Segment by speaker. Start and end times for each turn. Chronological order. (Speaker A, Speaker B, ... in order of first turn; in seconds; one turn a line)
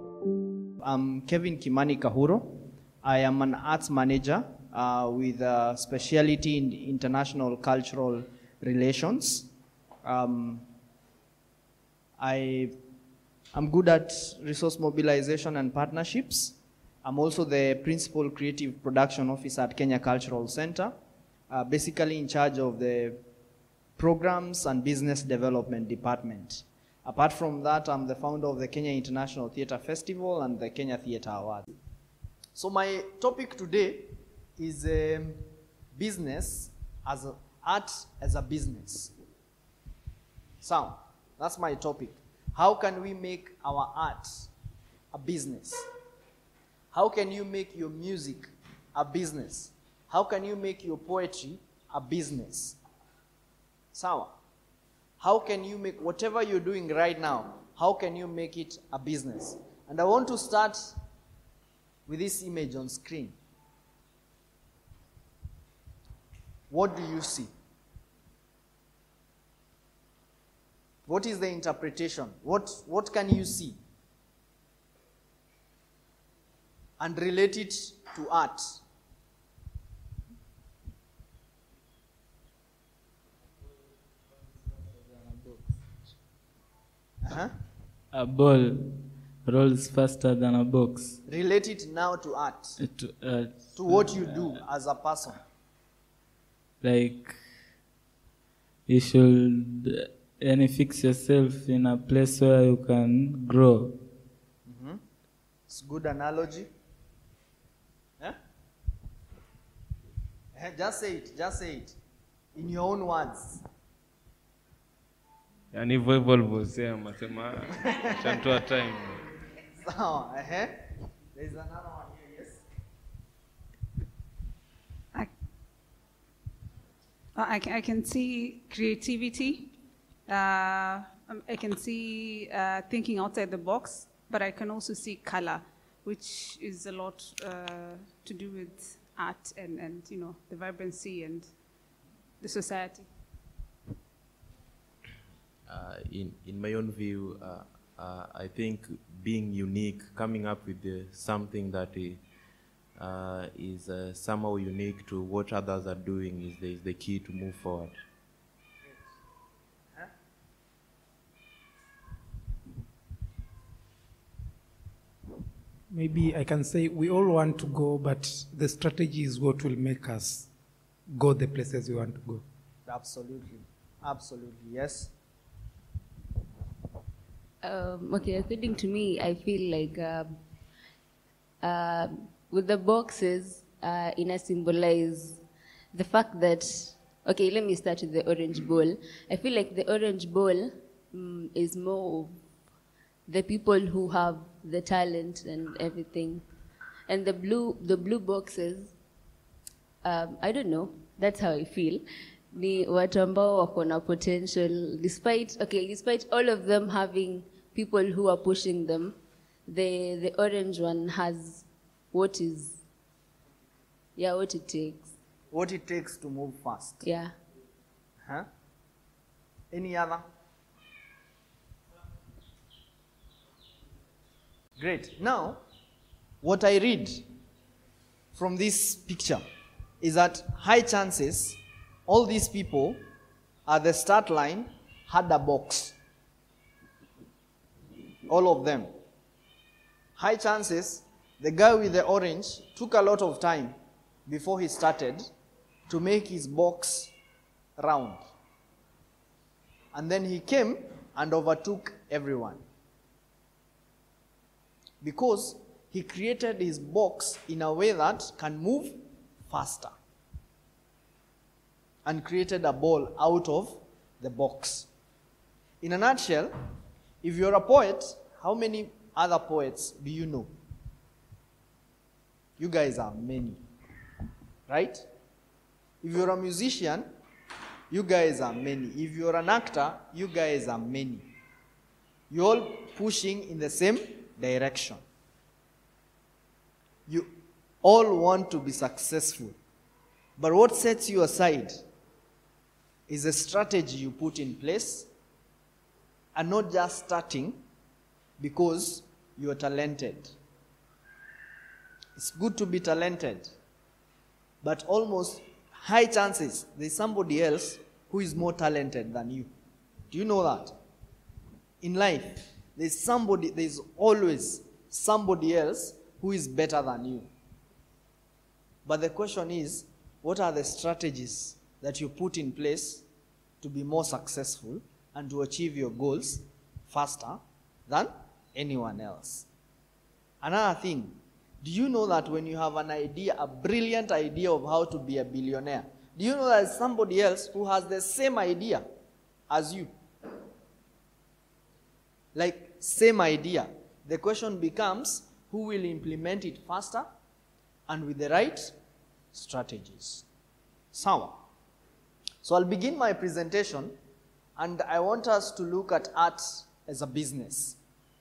Speaker A: 0.8-9.5
Speaker A: 10.0-10.7
Speaker A: 12.2-12.7
Speaker A: 13.5-20.9
Speaker A: 21.5-23.2
Speaker A: 24.0-31.7
Speaker A: 32.5-39.1
Speaker A: 40.6-44.5
Speaker A: 45.1-45.9
Speaker A: 46.9-52.8
Speaker A: 53.9-54.3
Speaker A: 55.2-61.0
Speaker A: 62.1-63.4
Speaker A: 66.7-67.5
Speaker A: 71.0-73.8
Speaker A: 77.0-78.8
Speaker B: 85.0-85.7
Speaker A: 87.2-87.5
Speaker B: 88.1-91.2
Speaker A: 91.2-92.8
Speaker B: 92.8-94.5
Speaker A: 93.7-95.4
Speaker B: 96.8-97.4
Speaker B: 98.9-104.0
Speaker A: 104.7-105.0
Speaker A: 105.7-106.7
Speaker A: 110.5-112.0
Speaker A: 112.5-113.6
Speaker C: 115.7-119.2
Speaker A: 117.9-118.3
Speaker A: 119.8-120.8
Speaker A: 121.3-122.6
Speaker D: 127.3-129.7
Speaker D: 130.3-141.5
Speaker D: 142.4-143.1
Speaker E: 145.7-152.2
Speaker E: 152.9-157.9
Speaker F: 165.9-170.5
Speaker F: 171.1-172.4
Speaker A: 172.9-175.1
Speaker G: 177.6-180.3
Speaker G: 181.6-185.4
Speaker G: 185.9-192.3
Speaker G: 193.3-196.4
Speaker G: 197.1-198.9
Speaker G: 200.0-209.2
Speaker G: 209.7-212.8
Speaker G: 214.2-215.1
Speaker A: 215.5-217.0
Speaker G: 217.0-217.3
Speaker A: 219.7-220.2
Speaker A: 224.8-225.6
Speaker A: 226.4-227.2
Speaker A: 228.3-229.4
Speaker A: 230.0-233.0
Speaker A: 233.7-235.9
Speaker A: 238.3-238.9
Speaker A: 240.2-243.8
Speaker A: 244.3-245.2
Speaker A: 245.9-247.1
Speaker A: 247.8-248.2
Speaker A: 249.9-252.6
Speaker A: 255.0-259.9
Speaker A: 262.0-264.9
Speaker A: 265.8-266.5
Speaker A: 267.2-270.5
Speaker A: 272.6-273.6
Speaker A: 274.7-275.0
Speaker A: 276.0-277.1
Speaker A: 277.9-281.3
Speaker A: 282.3-285.0
Speaker A: 287.1-289.6
Speaker A: 290.4-291.8
Speaker A: 293.1-295.1
Speaker A: 296.3-297.6
Speaker A: 298.4-300.3
Speaker A: 302.1-303.5
Speaker A: 304.6-309.5
Speaker A: 310.1-310.7
Speaker A: 311.8-317.3
Speaker A: 318.8-323.0
Speaker A: 323.6-329.5
Speaker A: 330.4-338.9
Speaker A: 339.5-339.9
Speaker A: 342.3-347.1
Speaker A: 347.9-348.7
Speaker A: 349.3-350.2
Speaker A: 350.9-351.4
Speaker A: 352.4-353.9
Speaker A: 354.6-357.8